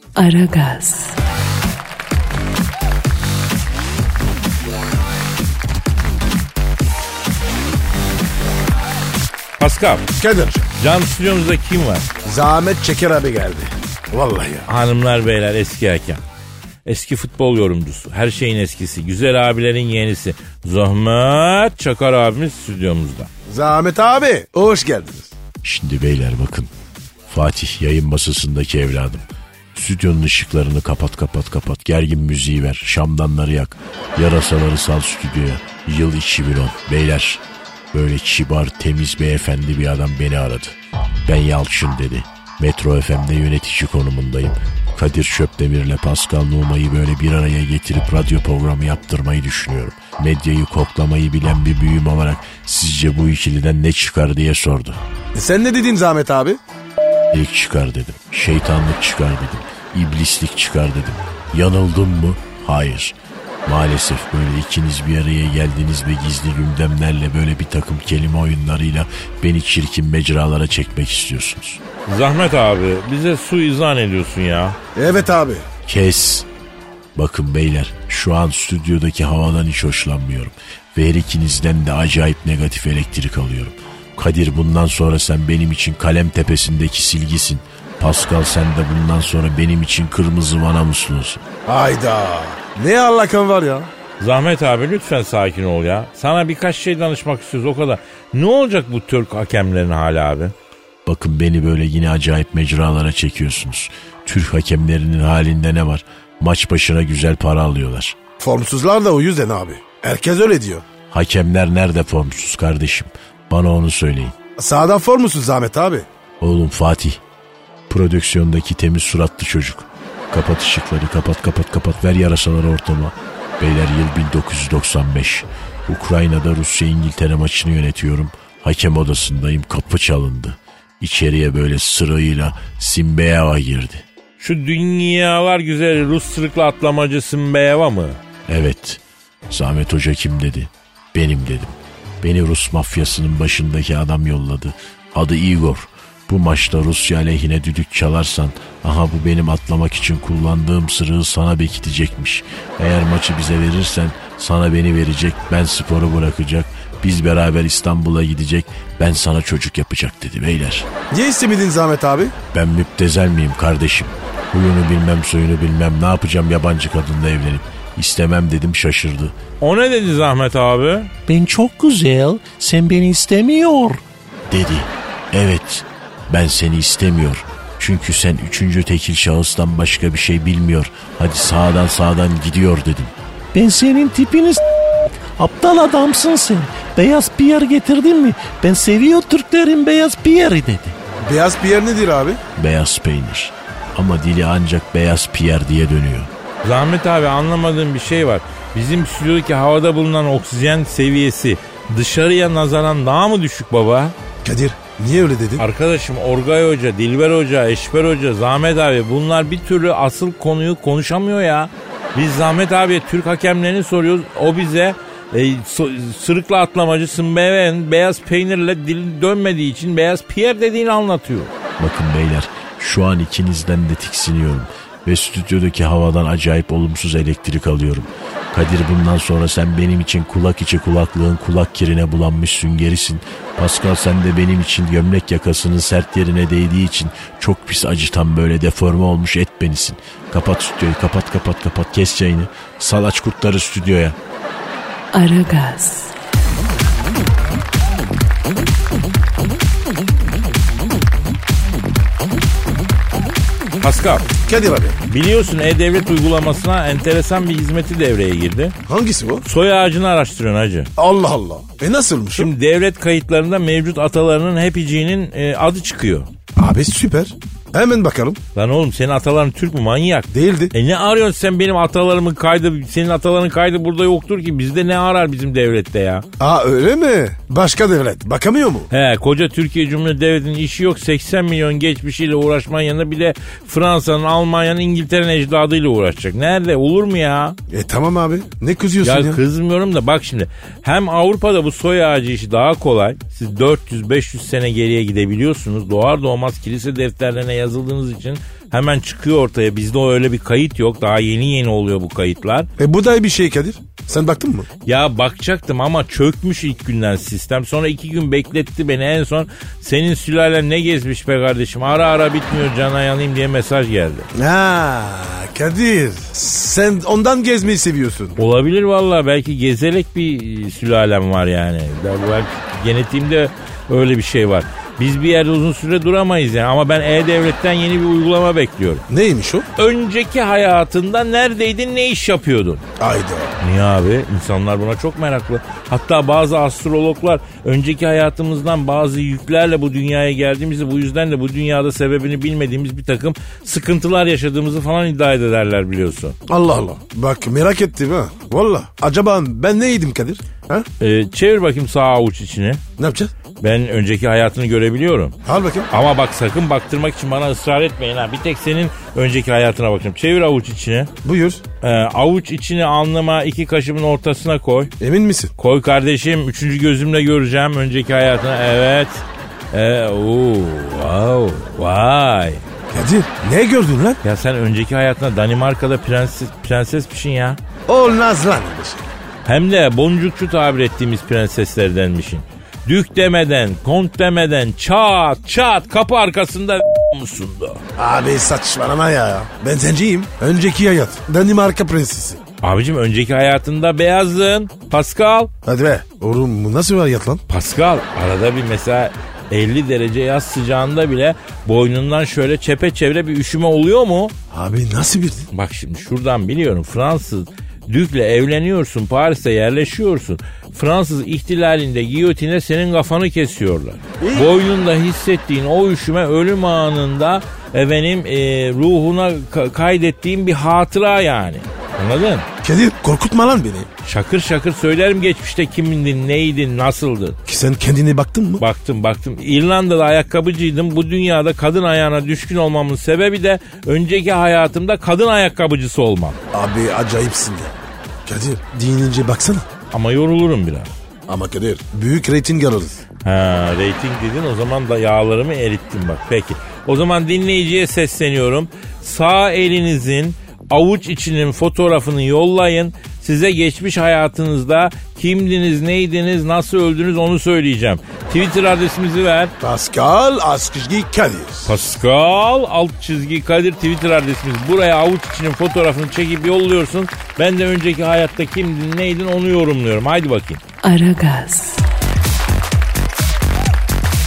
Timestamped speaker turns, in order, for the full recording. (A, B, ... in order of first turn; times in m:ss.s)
0:00.2-0:01.2 A
0:09.6-0:10.1 B
0:10.2-0:10.6 C
0:10.8-0:12.1 B
0:12.2-0:14.7 C
0:14.7-0:16.2 B
0:16.8-0:23.3 B
0:23.5-0:25.3 C
0:25.6-0:26.7 D
0:27.3-0:55.0 D
0:55.3-0:56.6 C
0:57.3-1:11.8 D
1:12.1-1:14.8 B
1:15.0-1:15.7 C
1:15.8-1:16.5 D
1:17.2-1:31.4 D
1:31.6-1:33.9 C
1:34.2-1:40.5 B
1:41.0-1:48.2 D
1:48.4-1:50.8 C
1:51.1-1:54.3 D
1:54.6-1:56.1 C
1:56.4-1:57.2 D
1:57.9-2:14.0 D
2:14.4-2:18.2 B
2:18.5-2:40.9 D
2:41.1-2:42.3 C
2:42.5-2:49.4 D
2:49.6-2:51.1 B
2:51.3-3:11.0 D
3:11.2-3:12.4 C
3:12.6-3:16.3 D
3:16.6-3:24.1 B
3:24.4-3:25.6 C
3:25.6-3:41.5 B
3:41.8-4:04.2 D
4:05.1-4:06.1 A
4:13.8-4:14.3 B
4:14.5-4:15.0 C
4:15.1-4:18.7 B
4:18.9-4:19.4 C
4:19.4-4:20.9 B
4:21.0-4:22.5 C
4:22.3-4:26.3 B
4:26.6-4:28.4 C
4:28.5-4:36.2 B
4:30.3-4:30.7 C
4:36.4-4:38.9 C
4:38.9-4:47.6 B
4:47.7-4:49.4 C
4:49.0-5:02.7 B
5:02.8-5:04.7 C
5:04.8-5:14.3 B
5:14.4-5:18.4 C
5:18.4-5:29.0 B
5:29.1-5:29.7 C
5:29.8-5:32.8 B
5:33.0-5:33.6 C
5:33.6-5:46.4 B
5:46.5-5:50.9 C
5:51.0-5:52.8 B
5:53.0-5:53.3 C
5:53.6-5:55.4 B
5:55.4-5:55.9 C
5:55.9-6:01.1 B
6:01.2-6:01.6 C
6:01.8-6:04.9 B
6:05.0-6:05.5 C
6:05.6-6:12.6 B
6:12.9-6:14.2 C
6:14.2-6:17.6 B
6:17.9-6:19.1 C
6:19.4-6:27.8 B
6:28.0-6:32.4 C
6:32.6-6:35.5 B
6:35.6-6:37.4 C
6:37.5-6:44.3 B
6:44.5-6:45.5 C
6:45.5-7:02.4 B
6:54.2-6:54.5 C
7:02.6-7:03.9 C
7:04.0-7:07.4 B
7:07.4-7:08.6 C
7:08.6-7:16.4 B
7:16.5-7:19.7 C
7:19.9-7:20.9 B
7:21.3-7:23.0 C
7:23.2-7:39.5 B
7:39.6-7:41.7 C
7:41.6-7:50.6 B
7:50.8-7:51.8 A